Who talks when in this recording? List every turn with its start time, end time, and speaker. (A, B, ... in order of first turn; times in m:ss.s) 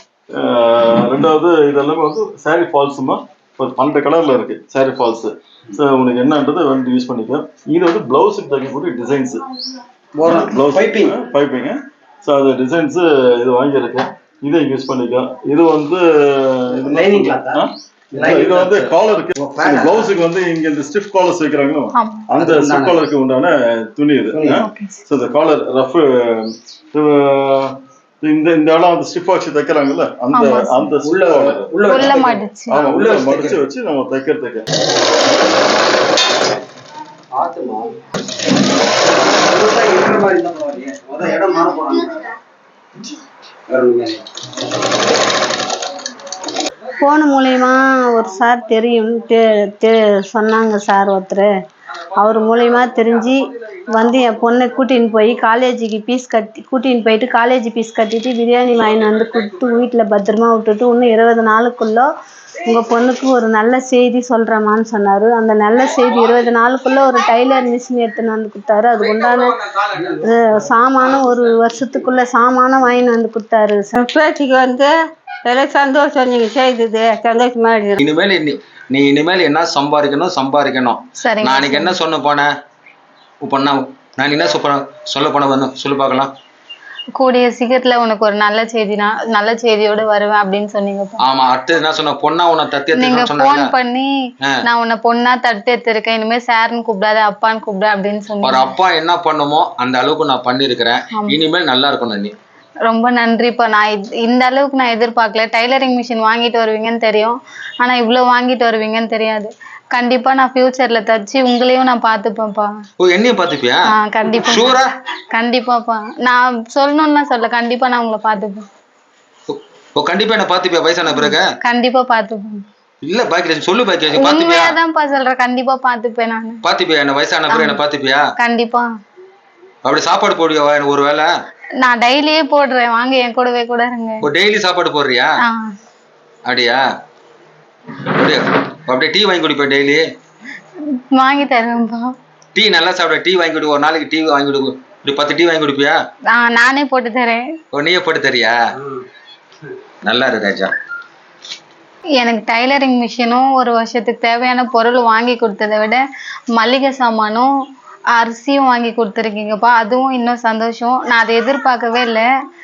0:00.3-0:09.5 A
0:10.2-0:11.2 B
0:10.2-0:31.8 A
0:16.7-0:17.6 B
0:18.1-0:20.1 B
0:22.0-0:22.3 C
0:22.4-0:23.0 B
0:24.6-0:25.0 C
0:30.3-0:30.9 C
0:31.0-0:33.6 B
0:31.9-0:32.8 C
0:32.7-0:34.6 A
0:37.3-0:38.0 B
0:39.2-0:42.3 B
0:43.7-0:44.2 B
0:47.0-0:51.5 D
0:52.1-1:02.1 D
1:02.6-1:14.0 D
1:14.0-1:14.9 E
1:15.5-1:17.9 E
1:16.7-1:17.9 D
1:18.0-1:22.5 F
1:21.2-1:21.9 C
1:23.4-1:26.3 F
1:27.2-1:31.2 C
1:31.2-1:33.7 F
1:33.0-1:34.1 C
1:34.6-1:38.7 C
1:38.4-1:42.3 F
1:42.9-1:52.7 C
1:53.0-1:54.9 F
1:53.9-1:54.8 C
1:55.3-1:58.7 C
1:59.5-2:01.4 F
2:01.1-2:02.6 C
2:03.0-2:04.8 F
2:04.2-2:06.6 C
2:06.6-2:08.2 F
2:07.5-2:07.8 C
2:08.4-2:08.9 C
2:09.8-2:11.3 F
2:11.8-2:14.2 C
2:14.2-2:15.3 F
2:15.4-2:15.7 C
2:16.5-2:16.8 F
2:18.1-2:20.0 F
2:21.1-2:22.1 C
2:22.6-2:26.0 F
2:26.3-2:27.5 C
2:27.7-2:28.6 F
2:30.0-2:30.7 F
2:32.2-2:36.0 C
2:36.6-2:37.5 C
2:38.1-2:42.3 C